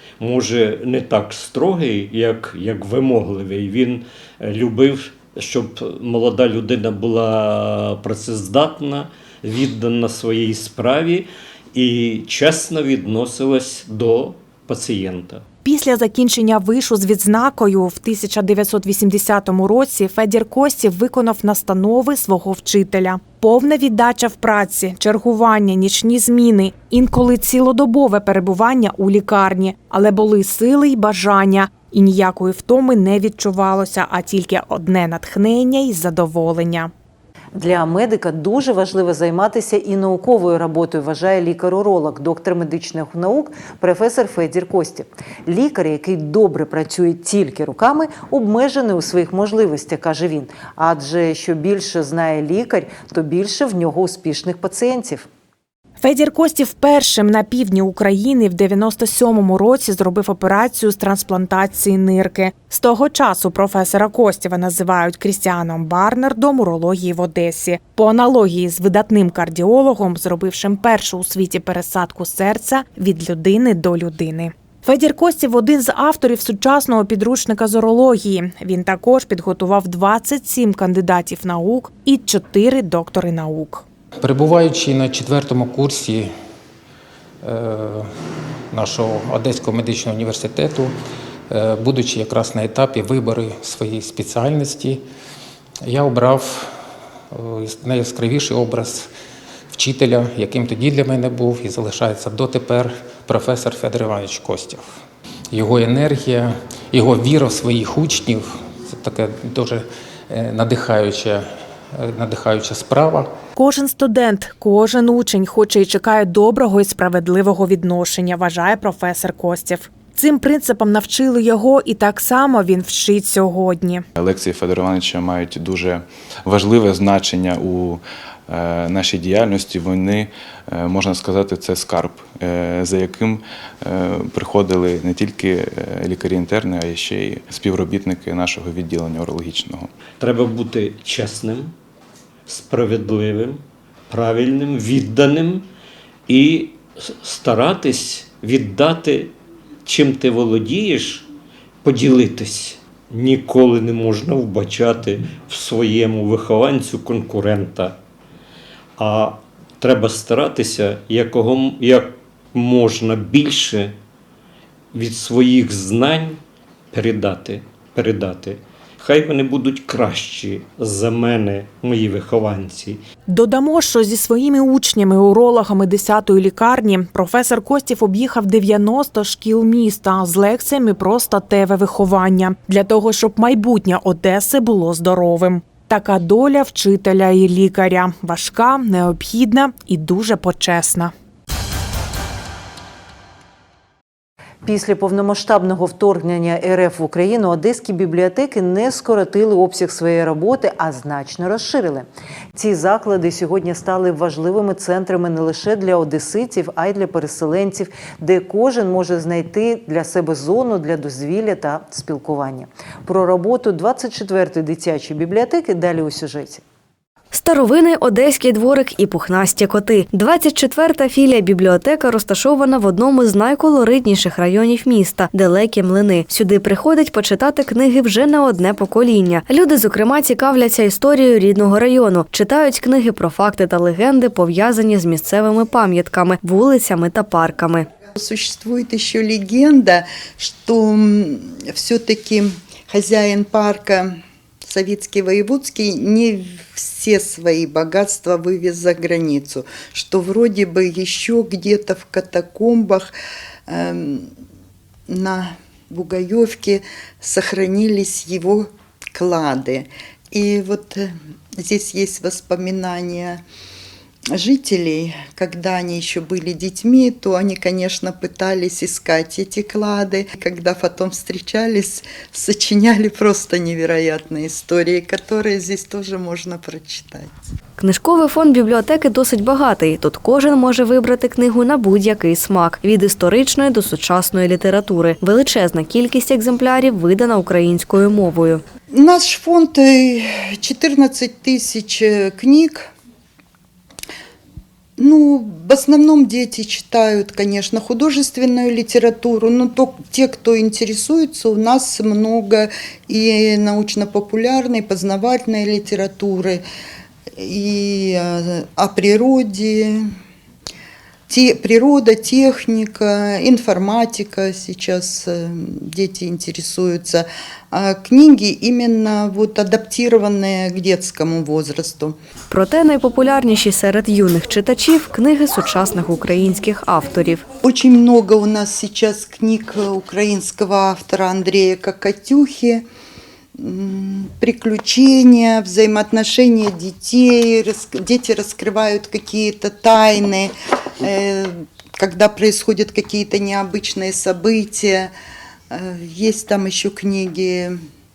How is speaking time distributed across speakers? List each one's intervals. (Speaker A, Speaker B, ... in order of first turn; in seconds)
Speaker A: 0.2-15.4, 140.2-141.7, 142.5-145.7, 146.3-149.3, 149.8-151.3, 151.8-158.0, 159.0-164.0, 164.9-166.4, 166.9-173.0
Speaker B: 15.6-36.9, 56.0-83.8, 113.6-124.1, 173.3-191.1
Speaker C: 37.5-55.3, 194.6-216.6
Speaker D: 84.2-86.3, 87.4-88.1, 88.7-90.9, 91.5-95.0, 95.8-96.8, 97.3-99.1, 99.7-104.9, 105.5-113.3
Speaker E: 124.2-139.9
Speaker F: 217.3-237.9, 277.8-288.6, 322.5-327.4
Speaker G: 238.2-253.1, 253.7-254.3, 255.1-263.4, 264.3-277.3, 288.9-292.9, 295.0-306.6, 307.4-310.1, 311.3-322.1, 327.6-332.9, 333.6-345.1, 345.7-347.8